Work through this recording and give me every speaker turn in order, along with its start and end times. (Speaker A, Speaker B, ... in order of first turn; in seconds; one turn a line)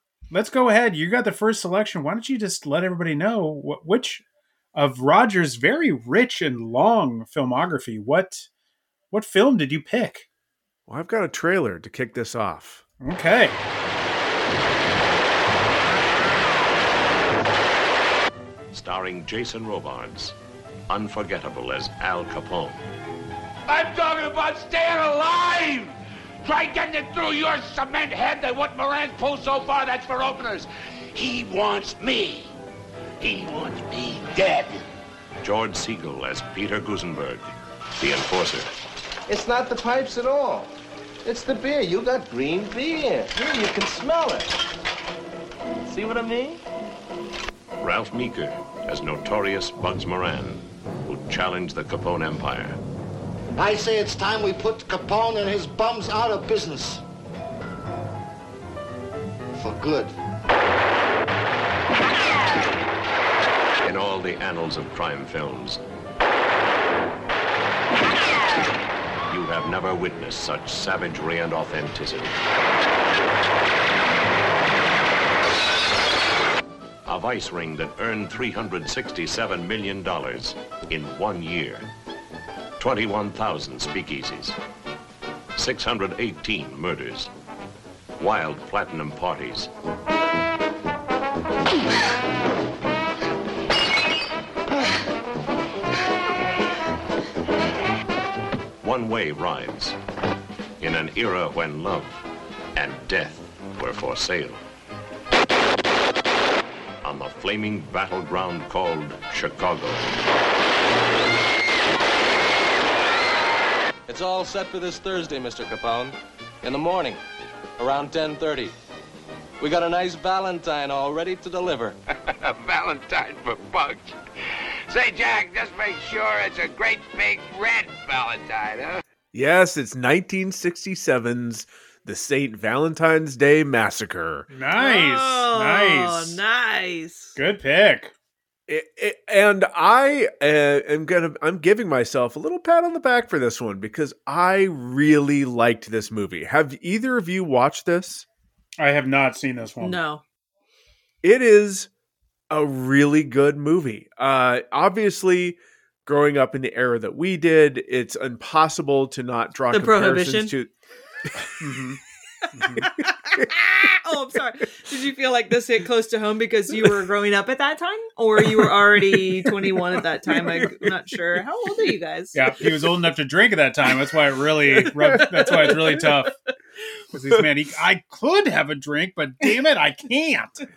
Speaker A: 0.3-4.2
Speaker A: 4.7-8.5
Speaker A: 9.1-10.3
Speaker B: 10.9-12.8
Speaker A: 13.0-13.6
Speaker C: 18.7-20.4
Speaker C: 20.9-22.8
Speaker D: 23.7-32.5
Speaker D: 33.2-34.9
Speaker C: 35.4-37.5
Speaker C: 38.0-38.7
Speaker E: 39.3-40.7
Speaker E: 41.2-44.6
Speaker E: 45.9-46.6
Speaker C: 47.8-52.8
Speaker F: 53.5-57.0
Speaker F: 59.5-60.1
Speaker C: 63.8-65.8
Speaker C: 69.3-72.4
Speaker C: 77.0-81.9
Speaker C: 82.8-84.6
Speaker C: 85.5-87.3
Speaker C: 88.2-89.7
Speaker C: 98.8-100.0
Speaker C: 100.8-102.2
Speaker C: 102.8-104.6
Speaker C: 107.0-110.1
Speaker G: 114.1-117.2
Speaker G: 117.8-118.7
Speaker G: 119.6-122.0
Speaker D: 122.4-124.1
Speaker D: 124.9-129.0
Speaker B: 129.3-134.5
Speaker A: 134.5-136.4
Speaker H: 134.8-137.3
Speaker A: 137.3-138.1
Speaker B: 138.7-148.2
Speaker A: 148.8-150.0
Speaker H: 149.8-150.2
Speaker B: 151.2-151.9
Speaker B: 152.5-160.7
Speaker H: 159.7-160.5
Speaker A: 161.6-162.0
Speaker A: 162.5-162.9
Speaker H: 162.9-172.5
Speaker B: 170.3-170.7
Speaker A: 172.3-176.3
Speaker B: 174.8-175.7
Speaker H: 175.6-176.0
Speaker A: 177.1-180.7